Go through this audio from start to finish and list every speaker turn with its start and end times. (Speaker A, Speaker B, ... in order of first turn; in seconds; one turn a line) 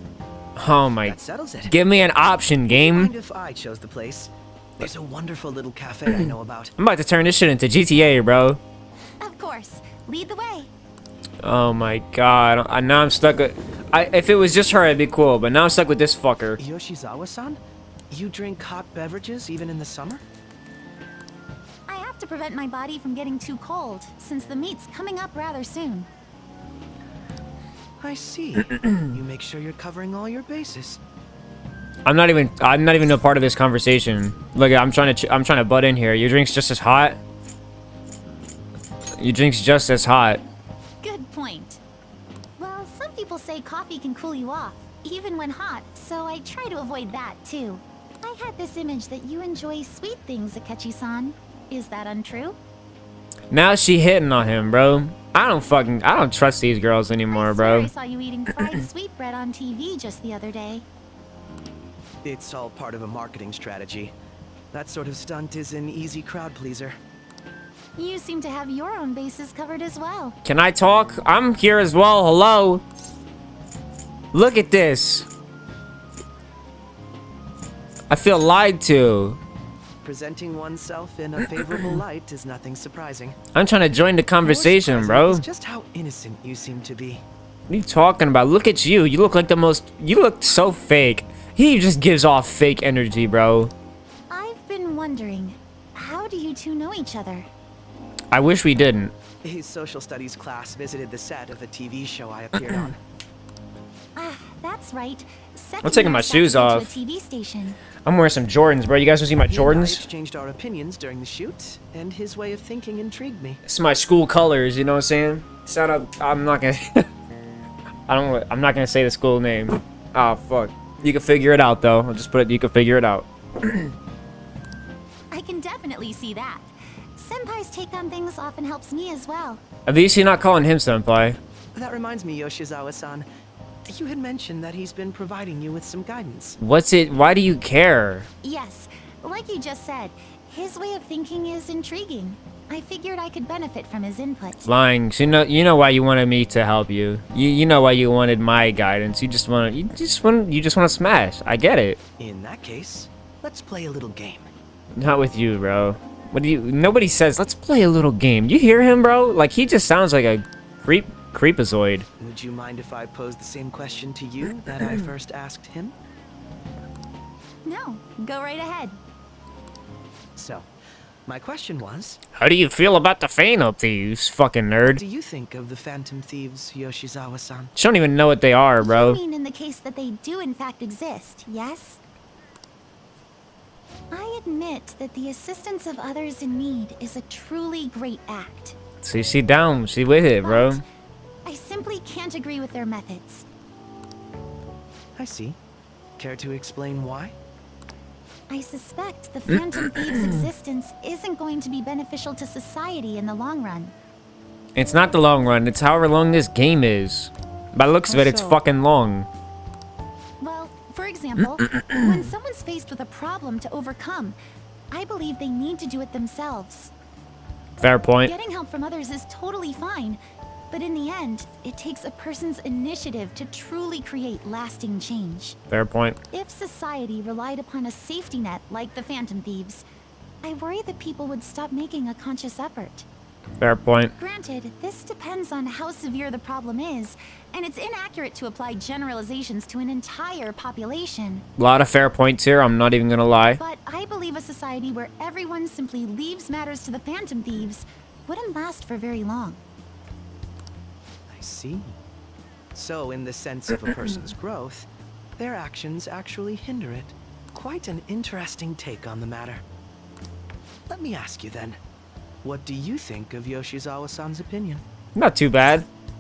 Speaker A: 0.6-3.1
Speaker B: 1.0-1.8
Speaker B: 2.7-6.7
Speaker A: 6.8-8.6
Speaker C: 9.2-10.7
Speaker A: 11.4-16.6
Speaker B: 16.6-20.2
Speaker C: 21.9-26.1
Speaker B: 28.0-31.0
Speaker A: 32.0-37.2
Speaker A: 39.2-40.4
Speaker C: 41.0-41.8
Speaker C: 42.6-52.6
Speaker A: 53.5-57.9
Speaker C: 57.3-60.9
Speaker B: 62.2-64.1
Speaker B: 64.7-67.0
Speaker C: 68.0-70.4
Speaker A: 70.5-72.8
Speaker A: 74.3-75.3
Speaker A: 78.1-79.4
Speaker B: 80.0-83.4
Speaker A: 83.5-85.5
Speaker B: 84.4-87.2
Speaker A: 87.7-93.7
Speaker C: 94.3-97.5
Speaker A: 98.3-99.1
Speaker B: 99.4-103.0
Speaker C: 104.2-107.8
Speaker A: 105.8-107.0
Speaker A: 108.0-110.0
Speaker B: 109.5-113.6
Speaker A: 113.6-117.1
Speaker A: 118.1-124.0
Speaker C: 125.3-129.6
Speaker A: 129.9-131.4
Speaker B: 131.8-133.3
Speaker B: 133.9-136.6
Speaker A: 136.6-138.3
Speaker C: 138.4-144.7
Speaker A: 144.7-152.0
Speaker B: 152.2-154.5
Speaker A: 154.9-162.1
Speaker B: 162.2-166.0
Speaker C: 167.6-169.0
Speaker B: 170.4-170.7
Speaker B: 171.2-172.2
Speaker A: 172.3-175.0
Speaker B: 174.9-177.7
Speaker A: 177.8-179.2
Speaker C: 178.8-182.0
Speaker C: 184.1-188.8
Speaker A: 189.0-190.8
Speaker C: 190.4-190.8
Speaker C: 191.4-193.5
Speaker B: 195.2-195.6
Speaker B: 196.2-197.3
Speaker C: 198.5-203.9
Speaker A: 199.5-200.5
Speaker A: 204.8-209.3
Speaker C: 210.4-214.4
Speaker A: 211.7-212.3
Speaker C: 214.9-216.9
Speaker A: 217.8-218.3
Speaker C: 218.2-220.2
Speaker C: 220.7-225.6
Speaker A: 225.7-226.2
Speaker C: 226.3-229.9
Speaker C: 230.4-233.1
Speaker A: 233.6-234.1
Speaker C: 234.2-241.4
Speaker A: 241.6-243.6
Speaker C: 243.6-249.6
Speaker B: 251.3-252.0
Speaker B: 252.7-259.6
Speaker B: 260.9-261.8
Speaker B: 262.4-264.8
Speaker A: 265.1-265.9